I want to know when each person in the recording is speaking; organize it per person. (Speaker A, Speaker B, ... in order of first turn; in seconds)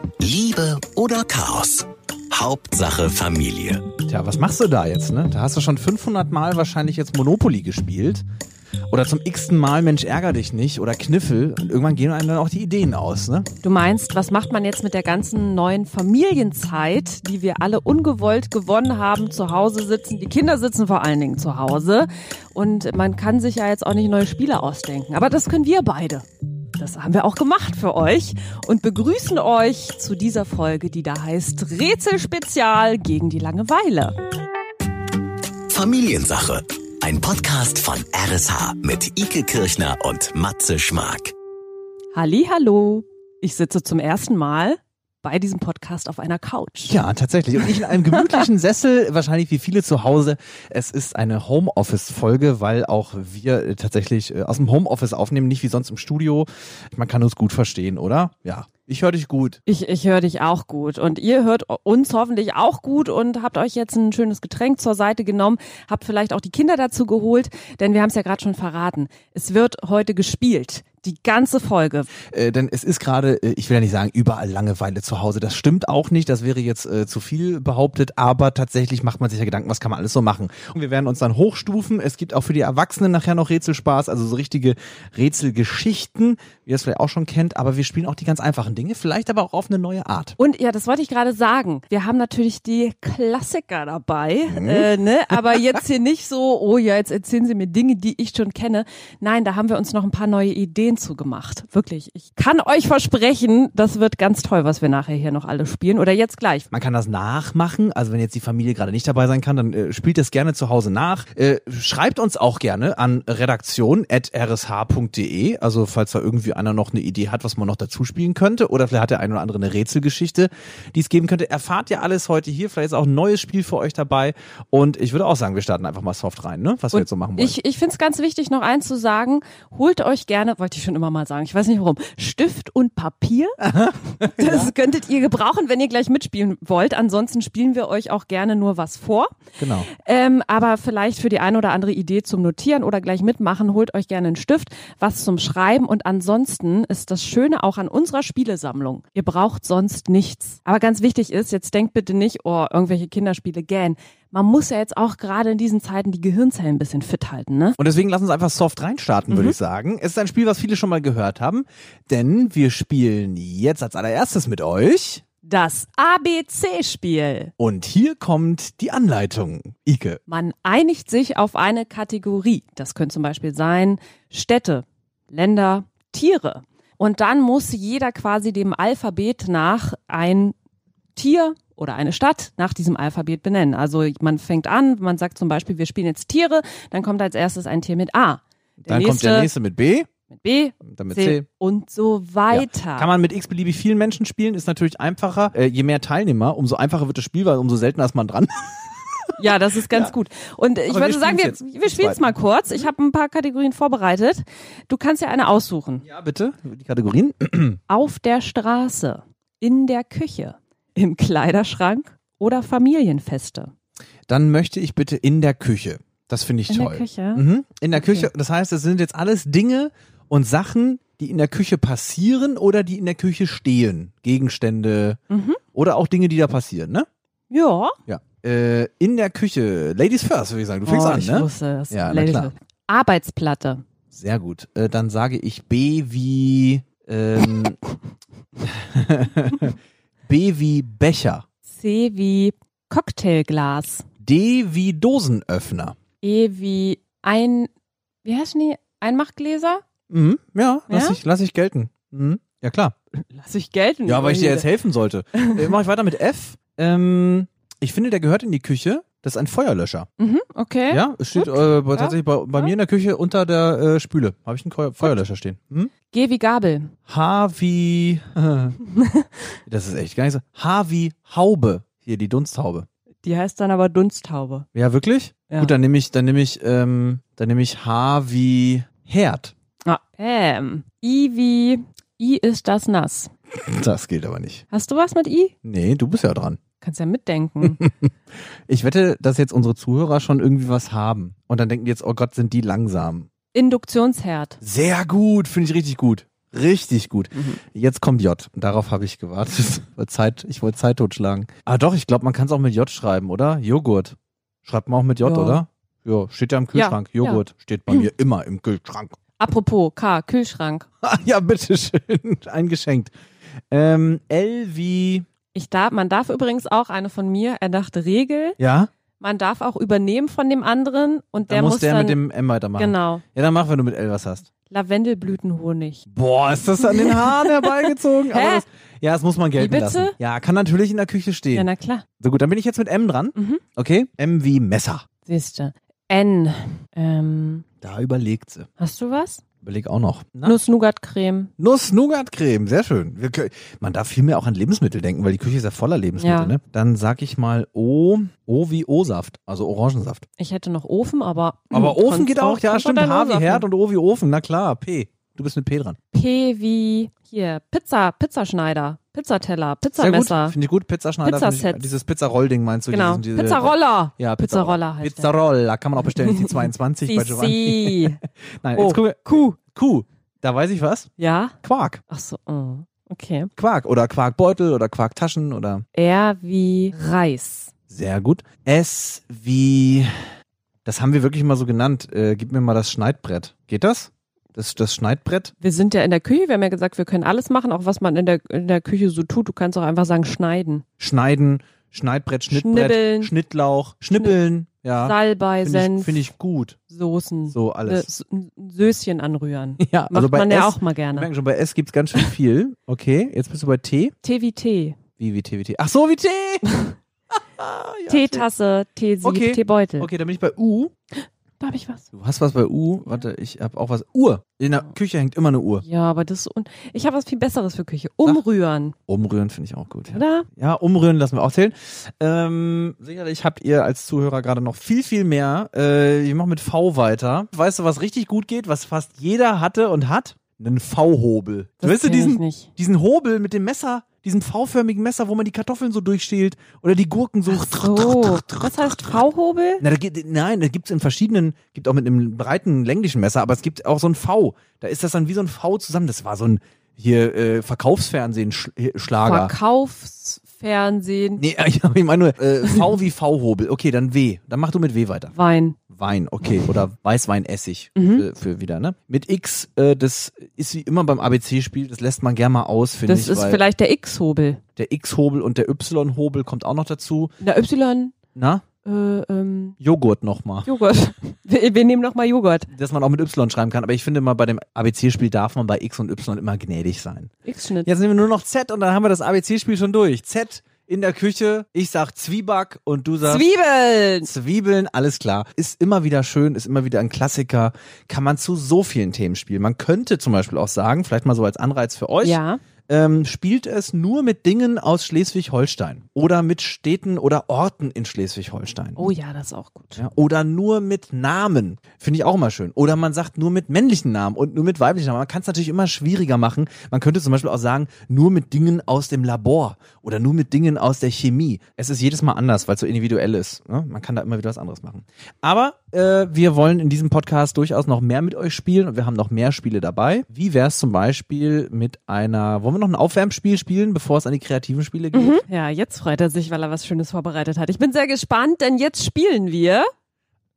Speaker A: 0.2-3.8, 35.7-41.3
Speaker B: 4.1-8.2, 8.9-13.5, 46.9-59.6, 72.3-90.3, 94.5-95.8, 106.7-127.6, 133.6-134.7, 139.6-139.9, 157.8-165.2, 167.6-170.2, 188.8-190.1, 190.8-191.4, 192.5-198.9, 200.9-202.8, 206.0-207.8, 214.3-225.2, 225.7-227.1, 228.1-232.5, 234.1-237.8, 238.6-239.7, 240.2-241.4, 244.2-245.9, 250.1-252.9, 254.1-260.1, 260.9-265.9, 267.1-268.8, 269.6-272.9, 274.7-279.5, 283.5-284.6, 285.6-286.6, 287.8-288.1, 288.7-293.3, 294.6-309.2, 311.0-313.1, 313.7-315.3, 318.6-318.9, 321.4-324.5, 326.1-331.7, 332.2-335.0, 337.8-338.7, 339.6-340.6, 341.6-350.2, 351.7-356.0, 360.0-371.1, 371.6-372.0, 373.6-375.8, 377.9-380.1, 380.9-385.5, 391.0-396.8, 397.5-398.1, 399.8-404.1, 405.2-406.6, 407.6-408.4, 409.2-410.9, 412.1-415.8, 419.1-438.9, 439.8-449.5, 451.4-455.3, 455.9-463.6, 464.8-467.3, 468.3-468.6, 469.8-470.7, 472.7-477.3, 477.8-483.4, 484.2-499.1, 500.0-525.4
Speaker C: 13.6-26.2, 26.8-34.1, 42.1-47.0, 59.7-72.1, 90.4-106.7, 126.9-139.3, 139.9-157.8, 159.3-159.6, 165.4-167.5, 170.3-180.6, 181.2-189.5, 190.3-193.1, 199.4-206.0, 207.9-213.7, 216.7-218.3, 225.3-225.6, 227.5-227.9, 230.8-233.8, 241.7-244.1, 246.2-247.7, 248.2-249.8, 250.9-251.2, 253.3-254.7, 255.3-255.8, 260.2-262.7, 266.1-266.9, 268.9-269.2, 273.2-274.6, 279.9-283.3, 284.7-285.5, 286.8-287.8, 293.5-294.6, 297.3-297.6, 305.2-305.6, 306.7-308.1, 309.4-310.9, 315.5-318.6, 319.2-322.2, 322.8-323.2, 324.7-326.1, 326.8-328.6, 329.6-330.1, 331.5-332.0, 333.4-333.6, 335.2-337.6, 338.8-339.4, 340.4-341.5, 346.2-346.6, 350.4-353.6, 356.1-360.6, 361.2-361.9, 362.9-365.3, 366.1-368.2, 368.8-369.6, 371.2-371.6, 372.1-373.5, 375.9-377.7, 385.6-390.8, 392.5-393.3, 395.0-396.3, 396.9-401.3, 404.2-405.0, 406.6-406.9, 408.1-410.1, 411.2-412.1, 415.8-418.9, 420.1-420.5, 431.8-432.7, 437.4-439.8, 449.2-451.4, 455.3-455.8, 457.9-458.3, 463.1-464.6, 467.4-468.1, 468.8-469.8, 470.6-472.7, 477.4-477.9, 483.2-484.3, 492.2-492.6, 498.9-500.0, 525.1-529.9